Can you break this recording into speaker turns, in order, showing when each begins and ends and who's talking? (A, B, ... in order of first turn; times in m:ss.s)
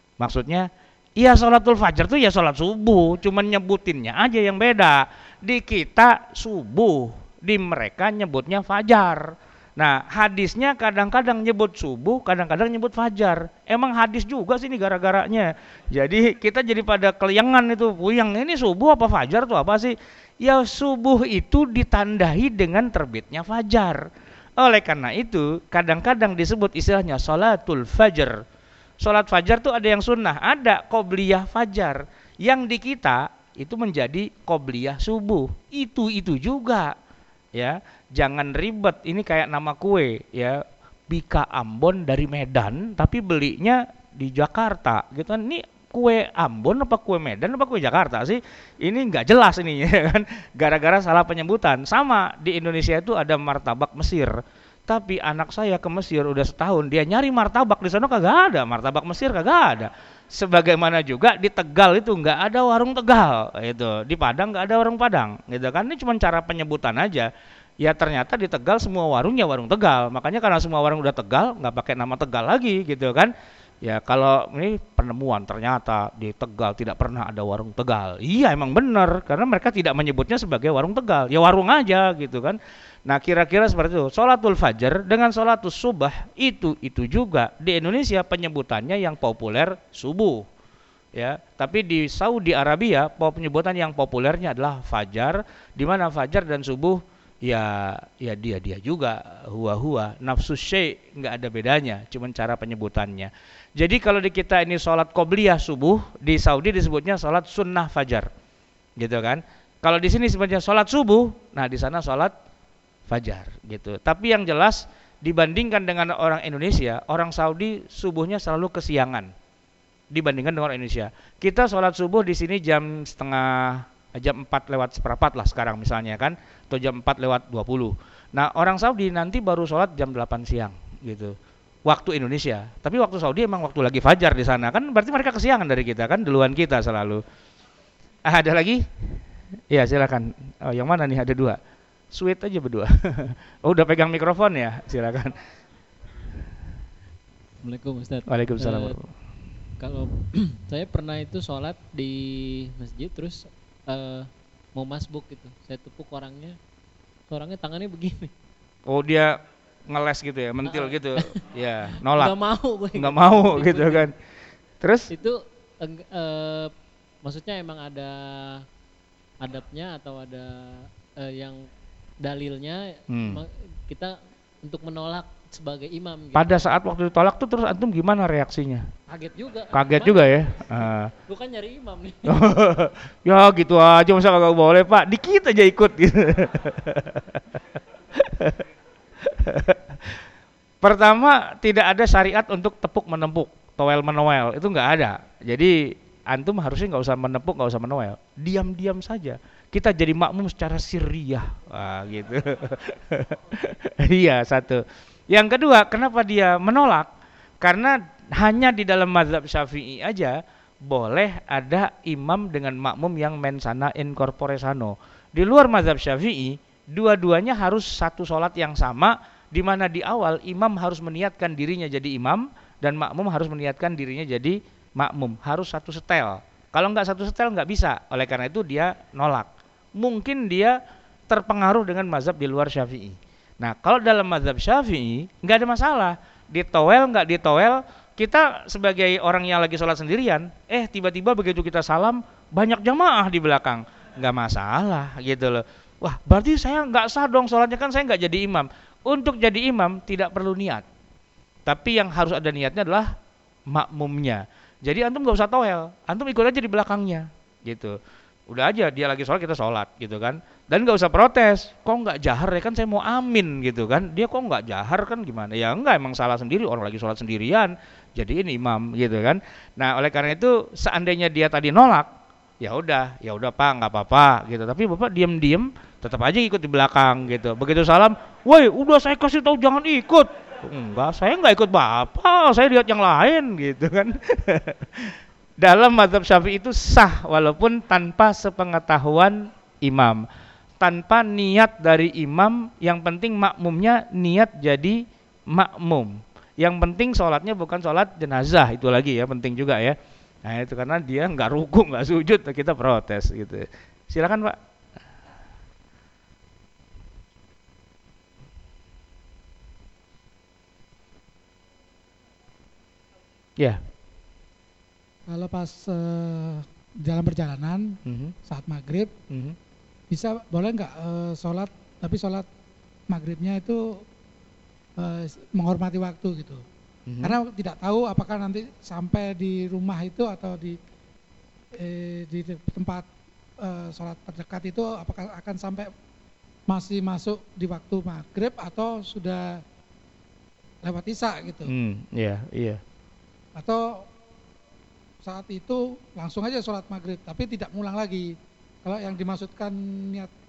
0:00.2-0:24.0 A
0:24.6-0:28.4 A
0:29.0-0:37.0 A
0:37.6-1:30.5 A
1:31.1-1:48.3 A
1:49.0-1:52.3 A
1:53.1-1:59.3 A
2:00.1-2:17.2 A
2:18.3-2:21.6 A
2:22.1-2:25.4 A
2:27.6-2:29.0 B
2:28.3-2:29.1 A
2:29.8-2:36.6 B
2:37.3-2:38.3 B
2:38.9-2:42.3 A
2:40.6-2:41.4 B
2:42.0-2:44.1 B
2:43.0-2:44.1 A
2:44.8-2:45.1 A
2:45.1-2:46.7 B
2:47.2-2:48.6 B
2:49.4-2:51.6 B
2:52.2-2:56.7 B
2:53.1-2:53.4 A
2:56.4-2:58.8 A
2:59.1-3:02.4 B
2:59.7-3:01.1 A
3:02.3-3:07.4 A
3:08.1-3:08.7 A
3:09.2-3:10.2 A
3:10.8-3:27.1 A
3:27.6-4:10.9 A
4:11.7-4:13.1 A
4:13.7-4:18.0 A
4:18.5-4:32.1 A
4:32.6-4:50.3 A
4:50.8-5:04.6 A
5:15.3-5:19.1 C
5:18.1-5:18.4 A
5:19.3-5:19.6 A
5:20.1-5:22.4 C
5:23.1-5:24.0 C
5:25.0-5:26.6 C
5:27.1-5:27.4 A
5:27.2-5:30.8 C
5:31.7-5:33.1 C
5:33.6-5:35.9 C
5:36.7-5:39.6 C
5:40.8-5:41.7 C
5:41.7-5:42.8 A
5:43.6-5:44.1 C
5:45.2-5:50.3 C